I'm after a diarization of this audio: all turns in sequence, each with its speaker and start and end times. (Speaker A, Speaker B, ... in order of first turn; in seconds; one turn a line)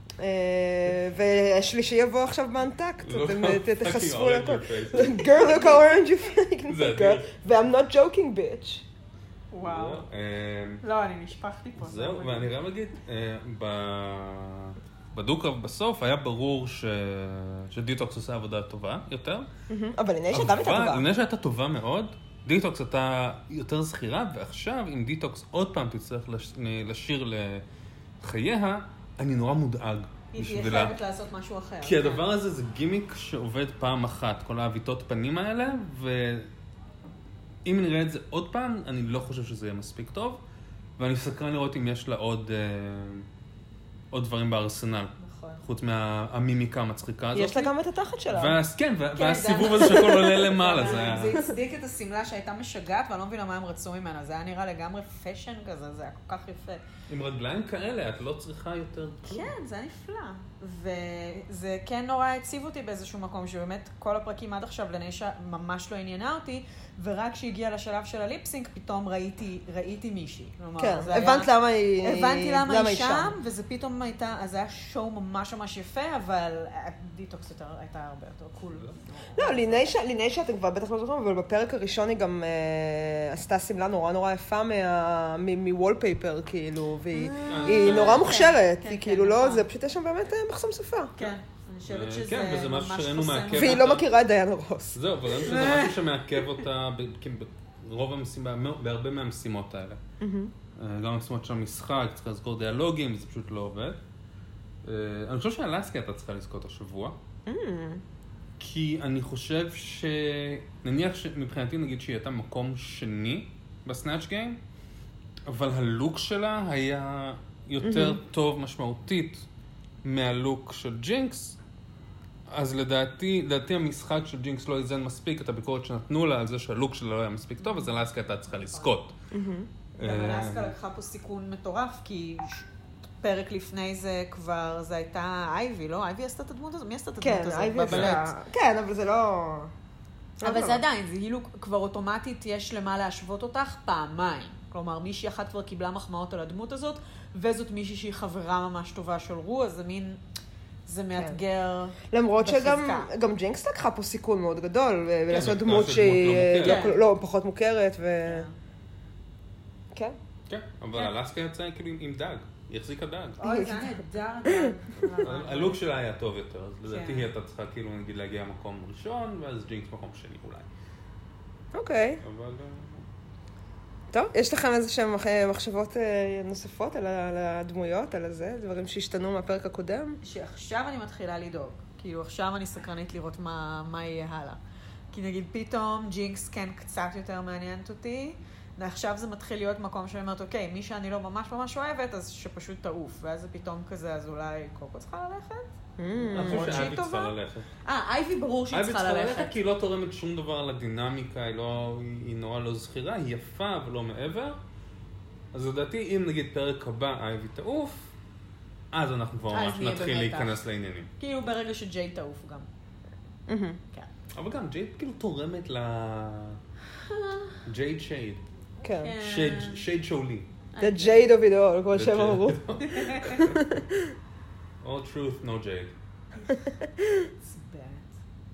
Speaker A: 0.2-8.8
Speaker B: 3.0-5.4
Speaker C: 5.4-5.9
Speaker B: 6.7-7.3
Speaker C: 9.5-10.0
Speaker B: 9.6-10.8
Speaker C: 10.8-12.5
Speaker B: 11.8-19.5
Speaker A: 19.7-21.1
Speaker B: 20.3-27.6
Speaker B: 28.2-30.9
Speaker C: 30.3-32.2
Speaker B: 31.8-36.5
Speaker B: 37.6-40.4
Speaker B: 41.0-43.3
Speaker B: 44.1-47.7
Speaker C: 45.2-45.6
Speaker A: 47.3-48.6
Speaker B: 48.3-51.4
Speaker C: 49.1-56.8
Speaker B: 57.1-59.5
Speaker C: 59.2-79.8
Speaker A: 70.8-73.3
Speaker B: 78.7-79.0
Speaker A: 79.4-91.1
Speaker C: 87.1-89.7
Speaker B: 87.4-88.4
Speaker C: 91.2-93.8
Speaker B: 91.9-94.1
Speaker A: 93.5-95.0
Speaker B: 94.9-100.0
Speaker C: 95.4-96.0
Speaker A: 100.2-100.5
Speaker B: 100.8-104.0
Speaker B: 104.8-107.2
Speaker A: 107.5-108.0
Speaker B: 108.6-114.6
Speaker B: 115.5-119.5
Speaker A: 117.8-118.2
Speaker B: 120.0-121.6
Speaker B: 122.5-129.2
Speaker C: 127.6-128.9
Speaker A: 129.3-129.7
Speaker B: 130.0-130.7
Speaker C: 130.0-132.7
Speaker C: 133.2-138.3
Speaker A: 137.2-139.7
Speaker B: 137.8-138.2
Speaker A: 140.4-140.8
Speaker C: 140.4-150.2
Speaker C: 150.8-153.1
Speaker A: 152.1-158.4
Speaker B: 155.3-156.9
Speaker C: 156.6-157.0
Speaker C: 158.2-158.5
Speaker B: 160.5-163.4
Speaker C: 163.4-165.8
Speaker A: 163.4-165.1
Speaker B: 165.2-170.7
Speaker C: 166.8-167.3
Speaker A: 171.7-172.2
Speaker B: 172.2-173.1
Speaker A: 174.1-180.2
Speaker C: 180.2-184.6
Speaker C: 185.1-195.7
Speaker A: 196.0-196.9
Speaker C: 196.3-197.3
Speaker B: 196.3-197.7
Speaker C: 197.8-199.5
Speaker B: 198.7-204.6
Speaker B: 205.5-208.1
Speaker B: 208.9-211.1
Speaker C: 209.5-210.6
Speaker C: 211.2-212.7
Speaker A: 213.5-213.8
Speaker B: 214.3-216.6
Speaker C: 217.0-217.6
Speaker B: 217.7-218.4
Speaker A: 218.8-219.2
Speaker C: 218.9-219.8
Speaker B: 219.2-220.5
Speaker C: 220.7-221.2
Speaker A: 220.8-222.6
Speaker B: 221.9-223.6
Speaker C: 222.8-223.4
Speaker A: 223.3-224.1
Speaker B: 224.8-225.9
Speaker C: 227.4-228.2